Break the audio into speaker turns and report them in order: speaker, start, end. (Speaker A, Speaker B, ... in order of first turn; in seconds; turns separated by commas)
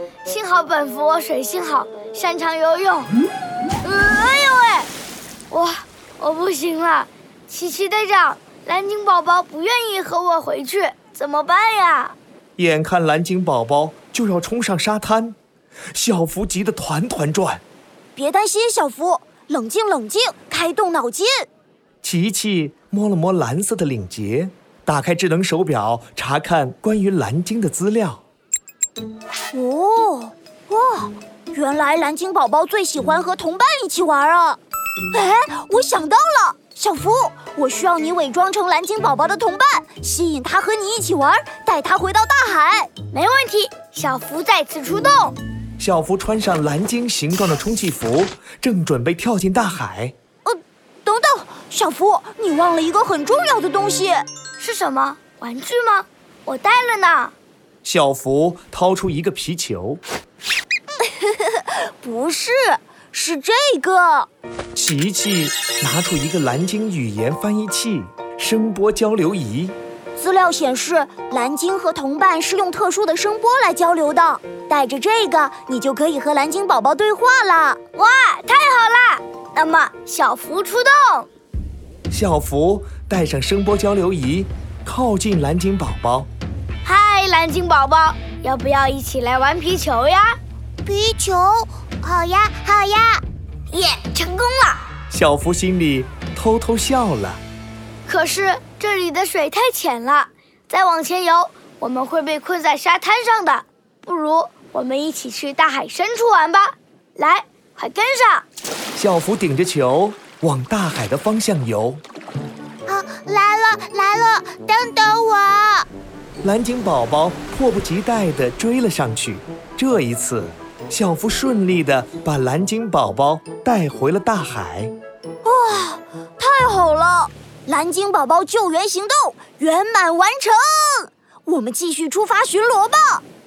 Speaker A: 0.2-3.1, Speaker A: 3.8-4.9, Speaker A: 5.5-12.2, Speaker B: 12.6-15.4, Speaker B: 15.9-17.6, Speaker C: 18.1-21.5, Speaker B: 22.0-28.2, Speaker C: 29.5-34.6, Speaker C: 35.1-42.9, Speaker A: 43.1-45.4, Speaker B: 45.8-50.1, Speaker C: 50.5-54.2, Speaker A: 54.6-57.3, Speaker B: 57.8-60.0, Speaker C: 61.2-64.3, Speaker B: 64.8-69.8, Speaker C: 70.2-77.8, Speaker A: 78.0-81.3, Speaker B: 82.1-86.3, Speaker A: 86.8-90.4, Speaker C: 90.8-93.2, Speaker A: 93.7-94.9, Speaker B: 95.1-97.4, Speaker A: 98.1-108.5, Speaker B: 109.0-112.0, Speaker C: 112.9-115.9, Speaker B: 116.4-124.9, Speaker C: 125.4-133.2